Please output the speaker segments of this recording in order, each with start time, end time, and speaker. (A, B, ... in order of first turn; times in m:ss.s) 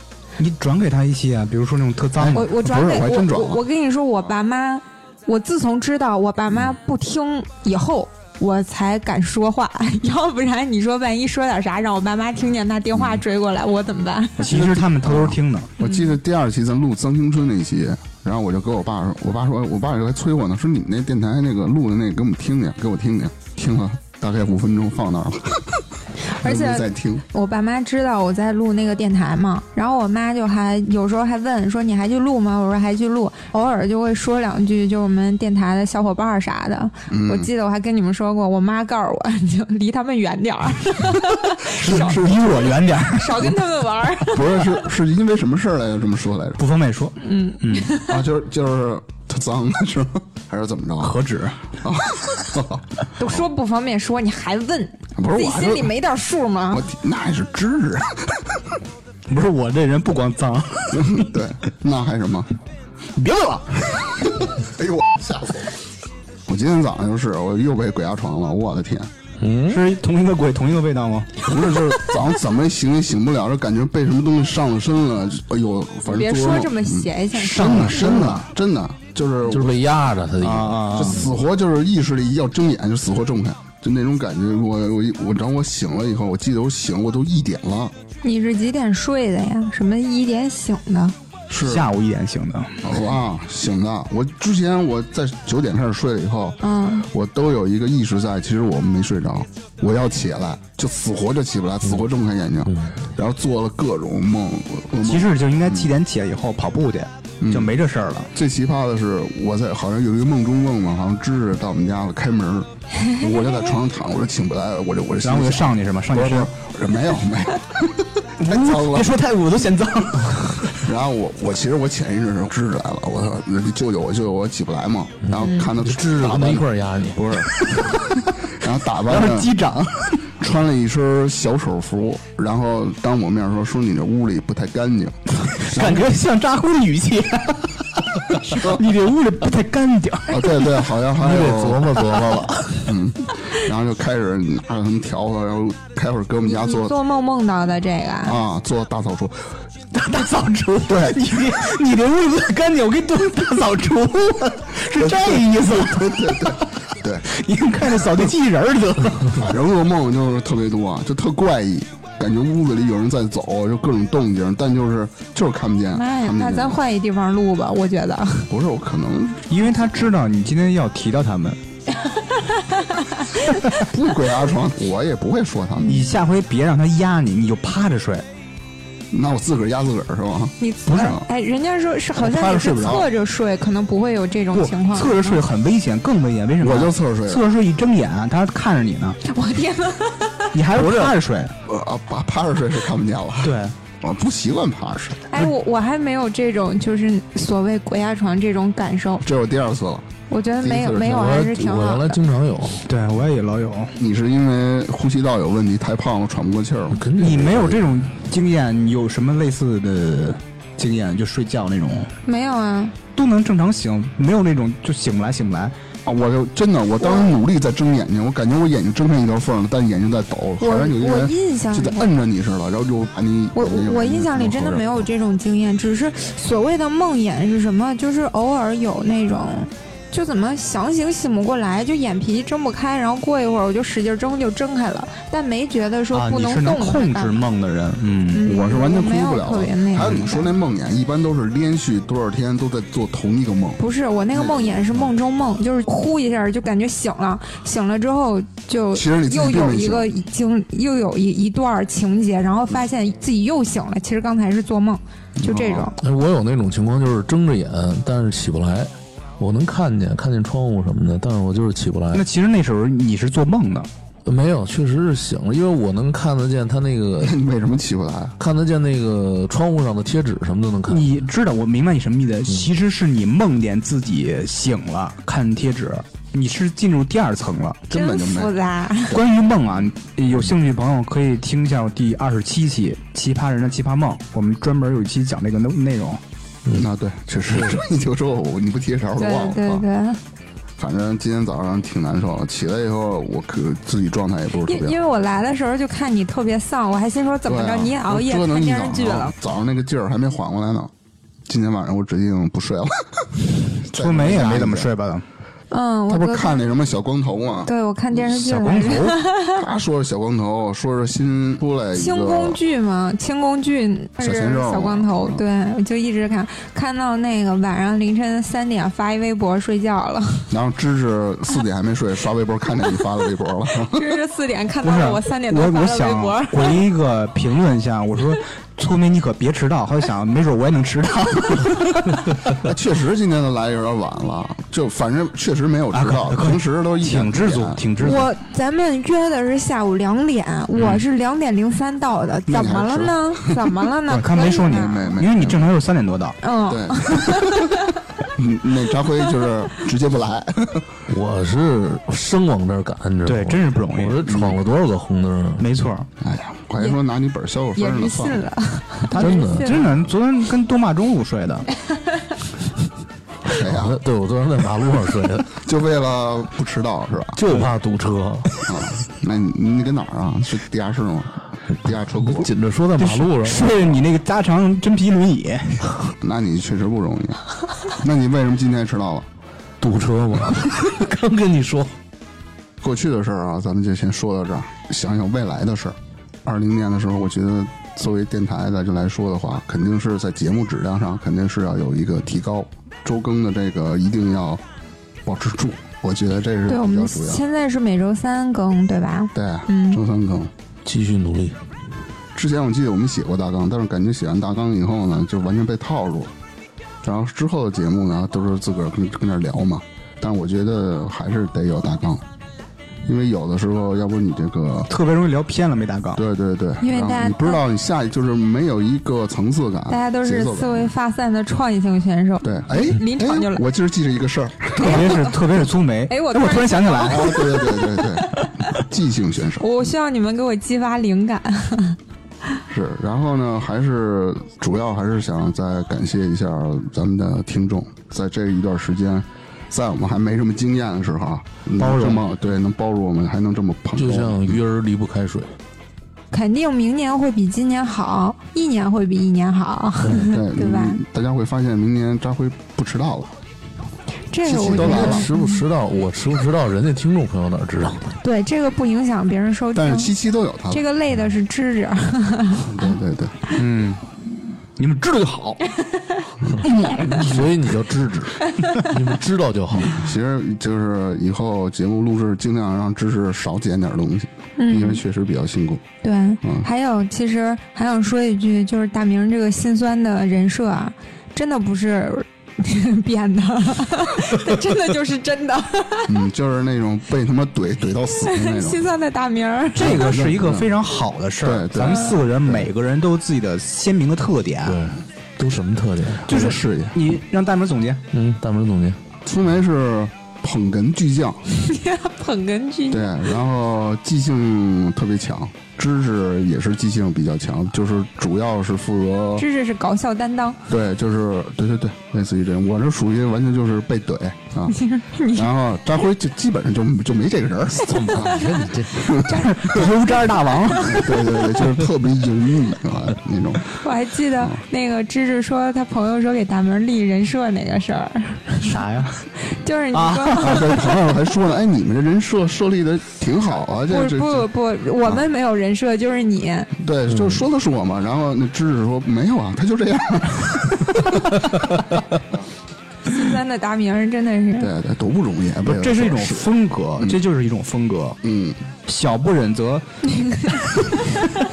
0:00.4-0:02.5 A
0:02.2-0:03.6 B
0:02.3-0:14.5 C
0:14.4-0:15.7 A
0:14.4-0:25.9 B
0:15.8-0:16.2 C
0:26.3-0:42.2 C
0:26.4-0:27.2 B
0:37.1-0:37.5 B
0:41.6-0:43.5 A
0:43.0-0:44.8 C
0:44.2-0:46.6 B
0:46.6-0:47.9 A
0:47.2-0:48.2 C
0:48.0-0:51.2 B
0:51.0-0:51.7 A
0:51.8-0:53.4 B
0:53.2-0:56.9 C
0:55.2-0:55.9 B
0:56.7-0:58.6 B
0:59.3-1:01.3 A
1:00.9-1:02.5 B
1:03.2-1:04.4 A
1:04.3-1:05.7 B
1:06.5-1:09.1 B
1:09.4-1:09.8 D
1:09.7-1:11.4 A
1:11.4-1:19.8 B
1:16.0-1:18.1 C
1:17.3-1:18.5 A
1:19.5-1:21.2 D
1:20.4-1:21.2 A
1:20.9-1:27.9 B
1:28.2-1:31.1 C
1:31.5-1:31.9 B
1:31.6-1:32.8 A
1:32.8-1:45.9 B
1:36.6-1:37.1 C
1:42.7-1:42.9 D
1:45.0-1:48.3 A
1:47.4-1:47.8 B
1:48.3-1:59.2 B
1:55.2-1:56.5 A
1:58.4-2:00.9 A
2:00.8-2:07.7 B
2:05.2-2:07.2 D
2:07.5-2:08.4 A
2:08.6-2:09.6 B
2:09.1-2:10.2 A
2:10.3-2:16.1 B
2:15.3-2:20.4 A
2:18.4-2:18.8 B
2:20.3-2:21.9 B
2:21.2-2:22.9 D
2:22.8-2:27.0 B
2:26.4-2:28.4 C
2:28.2-2:29.5 B
2:29.9-2:39.5 A
2:30.8-2:31.2 B
2:34.9-2:37.2 B
2:39.3-2:46.8 B
2:45.9-2:48.5 C
2:48.5-2:50.0 B
2:49.5-2:51.6 A
2:52.0-2:53.7 C
2:53.7-2:56.0 B
2:55.8-2:58.2 A
2:59.1-3:01.2 B
3:00.6-3:05.4 C
3:02.2-3:03.1 B
3:04.5-3:09.2 A
3:06.6-3:07.5 B
3:09.2-3:10.6 C
3:10.5-3:11.5 A
3:10.8-3:15.2 B
3:13.4-3:13.7 A
3:15.3-3:19.2 C
3:19.2-3:20.1 B
3:20.3-3:22.2 C
3:20.6-3:21.2 B
3:20.9-3:22.8 D
3:22.8-3:23.9 A
3:24.0-3:27.0 B
3:26.9-3:27.8 D
3:27.2-3:32.1 A
3:32.2-3:32.9 C
3:33.1-3:35.7 A
3:36.0-3:45.0 B
3:37.0-3:37.4 C
3:40.6-3:42.1 C
3:43.5-3:57.4 C
3:56.1-3:58.7 A
3:58.3-4:00.5 C
3:58.4-4:03.8 B
4:00.0-4:00.3 A
4:03.8-4:15.9 C
4:04.3-4:05.0 B
4:08.9-4:10.1 B
4:15.4-4:15.9 B
4:16.0-4:22.2 D
4:22.1-4:23.9 A
4:24.2-4:27.4 D
4:27.2-4:28.4 B
4:28.4-4:31.0 D
4:30.9-4:37.9 A
4:37.9-4:38.5 B
4:37.9-4:39.2 C
4:39.1-4:46.2 A
4:46.7-4:49.8 B
4:49.2-4:50.2 C
4:50.8-4:55.0 B
4:54.6-4:59.3 C
4:57.4-5:00.9 B
5:01.5-5:04.9 B
5:03.9-5:05.2 A
5:05.7-5:06.6 C
5:06.1-5:07.7 B
5:07.6-5:09.6 C
5:08.2-5:09.2 A
5:09.5-5:12.6 B
5:11.9-5:20.5 C
5:14.2-5:15.4 B
5:20.5-5:24.1 B
5:23.8-5:26.8 C
5:24.8-5:32.5 A
5:32.5-5:37.8 B
5:35.9-5:38.3 A
5:38.0-5:45.2 C
5:40.7-5:41.0 A
5:42.5-5:43.8 B
5:44.1-5:46.4 A
5:44.6-5:45.7 B
5:46.4-5:48.0 C
5:46.7-5:47.8 B
5:48.3-5:50.9 B
5:51.1-5:55.6 D
5:53.2-5:54.2 A
5:54.2-5:54.6 B
5:55.6-5:56.1 A
5:56.2-5:58.5 B
5:57.8-5:59.9 C
5:59.1-6:01.6 A
5:59.2-5:59.8 D
6:03.4-6:04.0 B
6:03.6-6:05.5 D
6:05.6-6:07.4 B
6:07.3-6:08.6 D
6:08.7-6:12.5 B
6:12.2-6:13.7 D
6:13.0-6:16.0 A
6:16.2-6:19.3 B
6:19.8-6:22.0 D
6:22.8-6:34.6 B
6:35.2-6:37.4 B
6:36.7-6:40.0 C
6:39.3-6:40.5 B
6:40.8-6:41.6 D
6:42.3-6:46.3 B
6:47.0-6:52.2 B
6:53.0-6:54.9 B
6:54.9-6:56.2 A
6:56.2-7:00.9 B
6:56.8-6:57.6 C
6:59.9-7:03.6 C
7:02.4-7:05.0 B
7:04.8-7:07.5 A
7:04.8-7:05.4 C
7:06.1-7:07.6 C
7:07.0-7:09.6 B
7:09.6-7:12.0 C
7:12.7-7:24.6 B
7:21.8-7:22.3 A
7:24.0-7:25.5 D
7:26.3-7:31.0 C
7:30.1-7:33.3 B
7:34.3-7:35.6 C
7:34.4-7:35.3 B
7:34.5-7:38.1 D
7:38.2-7:40.1 C
7:39.7-7:40.8 B
7:40.7-7:43.0 C
7:42.6-7:43.4 B
7:43.5-7:44.1 A
7:44.8-7:45.6 A
7:46.6-7:47.6 A
7:47.0-7:50.0 D
7:49.8-7:55.8 B
7:54.6-7:55.0 C
7:56.0-8:06.2 C
7:56.4-7:56.7 B
8:06.1-8:08.9 B
8:08.2-8:10.0 C
8:09.7-8:14.8 A
8:09.8-8:10.8 B
8:11.4-8:12.7 B
8:14.6-8:16.3 D
8:16.3-8:18.0 A
8:16.3-8:17.0 B
8:18.1-8:19.0 D
8:19.2-8:21.4 B
8:21.5-8:23.2 C
8:22.9-8:29.5 B
8:29.4-8:30.6 C
8:30.7-8:34.8 B
8:34.7-8:35.5 C
8:35.3-8:39.9 B
8:37.8-8:39.1 D
8:38.3-8:39.8 C
8:39.2-8:41.2 A
8:40.4-8:40.7 C
8:40.7-8:43.8 B
8:43.8-8:48.8 C
8:48.6-8:49.2 A
8:49.4-8:50.8 C
8:49.9-8:50.8 A
8:50.4-8:54.5 B
8:53.9-8:56.7 C
8:56.8-9:01.5 B
9:03.0-9:04.7 C
9:04.6-9:07.2 B
9:05.6-9:08.2 A
9:08.2-9:08.6 B
9:08.9-9:11.0 A
9:10.3-9:10.8 C